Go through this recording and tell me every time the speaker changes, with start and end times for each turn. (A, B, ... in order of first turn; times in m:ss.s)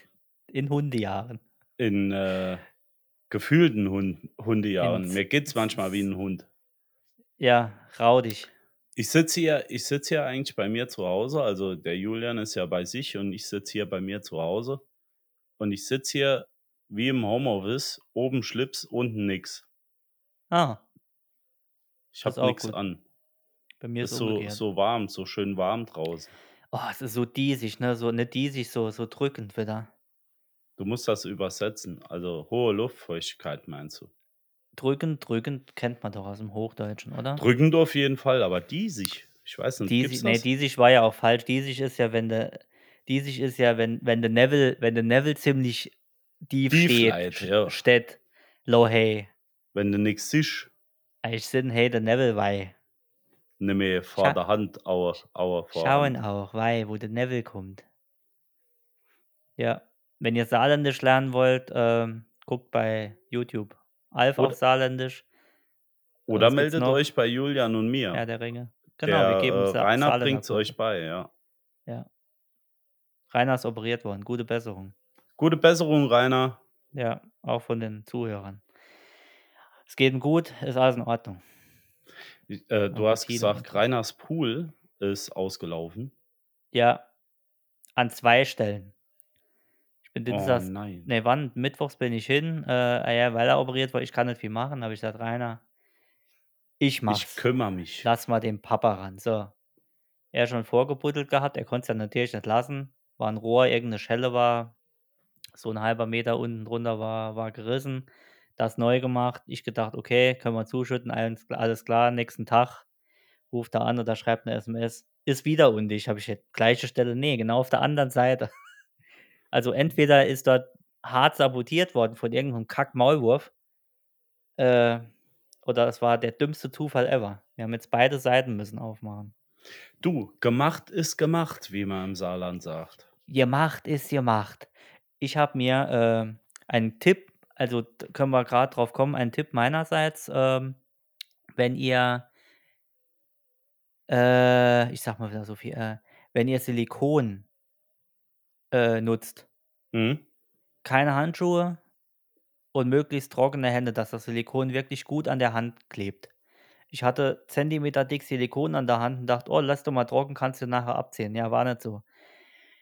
0:00.5-0:01.4 A
0:01.8-0:02.6 B
0:03.3-0:06.5 B
0:04.8-0:05.2 A
0:07.4-0:08.5 A
0:09.0-0:14.8 B
0:15.6-0:19.6 B
0:20.5-0:20.8 A
0:22.1-0:23.0 B
0:22.2-0:22.8 A
0:23.8-0:24.6 A
0:24.0-0:26.3 B
0:26.7-0:29.9 A
0:30.8-0:34.1 B
0:34.8-0:37.4 A
0:37.4-0:40.4 B
0:39.8-0:45.9 A
0:46.5-0:49.3 A
0:46.7-0:47.8 B
0:49.7-0:50.7 B
0:51.2-0:52.7 A
0:53.6-0:56.2 B
0:55.7-0:57.8 A
0:59.6-1:05.2 A
1:06.3-1:08.2 B
1:06.3-1:07.0 A
1:08.1-1:10.7 A
1:09.0-1:11.3 B
1:13.3-1:14.9 A
1:15.4-1:16.6 B
1:16.9-1:18.6 A
1:19.9-1:21.4 A
1:22.5-1:26.1 B
1:22.9-1:23.7 A
1:26.7-1:27.0 A
1:28.0-1:28.9 A
1:30.0-1:35.6 A
1:30.3-1:31.1 B
1:36.8-1:37.4 A
1:37.1-1:38.1 B
1:38.0-1:39.5 A
1:40.3-1:44.7 A
1:45.5-1:52.8 A
1:53.5-1:58.5 A
1:59.5-2:03.5 A
2:04.6-2:05.1 A
2:05.6-2:09.3 A
2:10.0-2:13.0 B
2:13.3-2:20.8 A
2:21.6-2:22.3 A
2:24.1-2:27.4 A
2:28.7-2:29.4 A
2:29.9-2:30.2 B
2:30.8-2:31.8 A
2:32.7-2:36.3 A
2:36.9-2:42.0 A